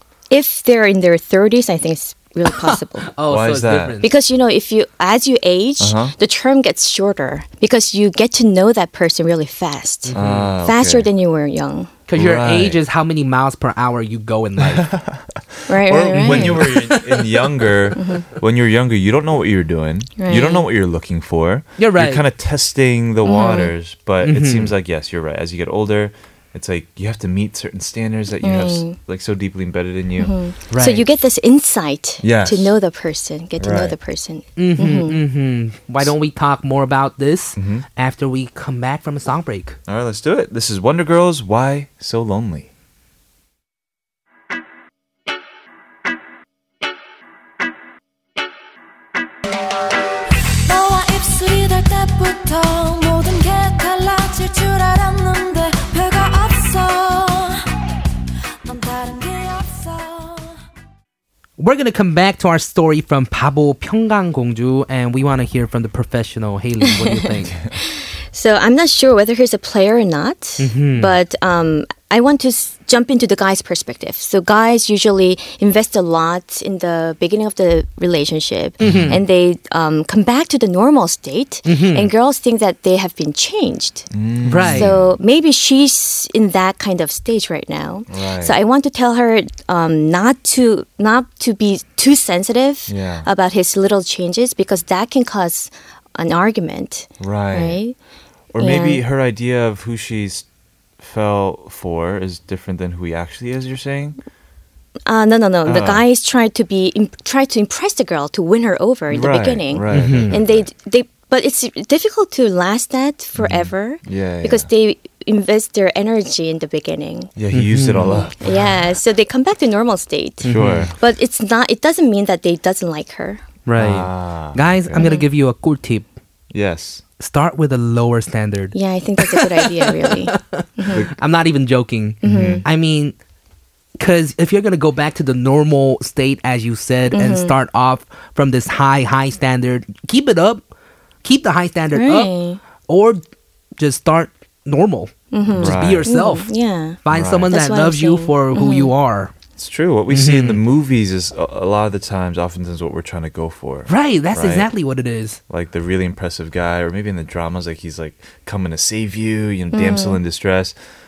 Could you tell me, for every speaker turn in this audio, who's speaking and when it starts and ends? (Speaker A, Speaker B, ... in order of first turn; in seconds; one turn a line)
Speaker A: 0.3-3.1
Speaker B: 2.5-4.1
Speaker C: 3.3-4.0
Speaker A: 4.0-11.9
Speaker C: 5.8-6.1
Speaker B: 10.1-10.5
Speaker C: 10.1-11.1
Speaker B: 12.1-14.9
Speaker C: 12.2-12.8
Speaker C: 14.6-30.3
Speaker A: 15.7-16.6
Speaker B: 16.1-17.8
Speaker A: 17.9-18.2
Speaker A: 20.2-20.7
Speaker B: 21.8-22.2
Speaker A: 23.2-23.7
Speaker B: 24.2-24.7
Speaker A: 28.4-28.9
Speaker A: 30.2-35.2
Speaker B: 30.7-31.0
Speaker C: 32.2-32.8
Speaker C: 33.6-33.9
Speaker B: 34.6-39.8
Speaker C: 37.5-37.8
Speaker C: 39.9-42.7
Speaker D: 50.6-57.7
Speaker D: 58.6-60.6
Speaker B: 61.6-67.5
Speaker A: 66.8-67.3
Speaker A: 67.8-84.1
Speaker B: 70.6-71.1
Speaker C: 78.8-79.2
Speaker B: 78.8-79.2
Speaker B: 81.7-82.1
Speaker C: 84.1-85.1
Speaker B: 84.5-84.9
Speaker A: 84.7-98.0
Speaker C: 88.1-88.6
Speaker C: 92.9-93.3
Speaker C: 97.2-97.8
Speaker C: 98.5-100.5
Speaker A: 98.6-99.0
Speaker C: 101.0-104.2
Speaker A: 105.0-117.3
Speaker C: 105.6-106.0
Speaker C: 109.1-110.7
Speaker B: 109.9-110.3
Speaker C: 113.4-114.7
Speaker C: 117.4-118.7
Speaker B: 117.5-118.3
Speaker A: 118.0-123.4
Speaker B: 120.4-120.9
Speaker C: 120.4-120.9
Speaker B: 123.7-126.1
Speaker C: 123.8-125.1
Speaker A: 125.0-125.3
Speaker C: 126.5-127.0
Speaker B: 127.2-133.2
Speaker A: 128.7-131.1
Speaker A: 132.2-132.6
Speaker C: 132.2-132.6
Speaker B: 134.0-140.6
Speaker A: 137.1-137.5
Speaker B: 141.2-142.3
Speaker A: 141.9-142.6
Speaker B: 142.8-143.2
Speaker B: 143.8-146.5
Speaker A: 145.3-147.0
Speaker C: 145.6-146.1
Speaker B: 147.0-149.3
Speaker C: 147.1-147.5
Speaker A: 147.5-148.9
Speaker C: 149.6-154.7
Speaker B: 150.1-150.6
Speaker B: 153.9-155.4
Speaker C: 155.5-160.8
Speaker A: 159.7-160.2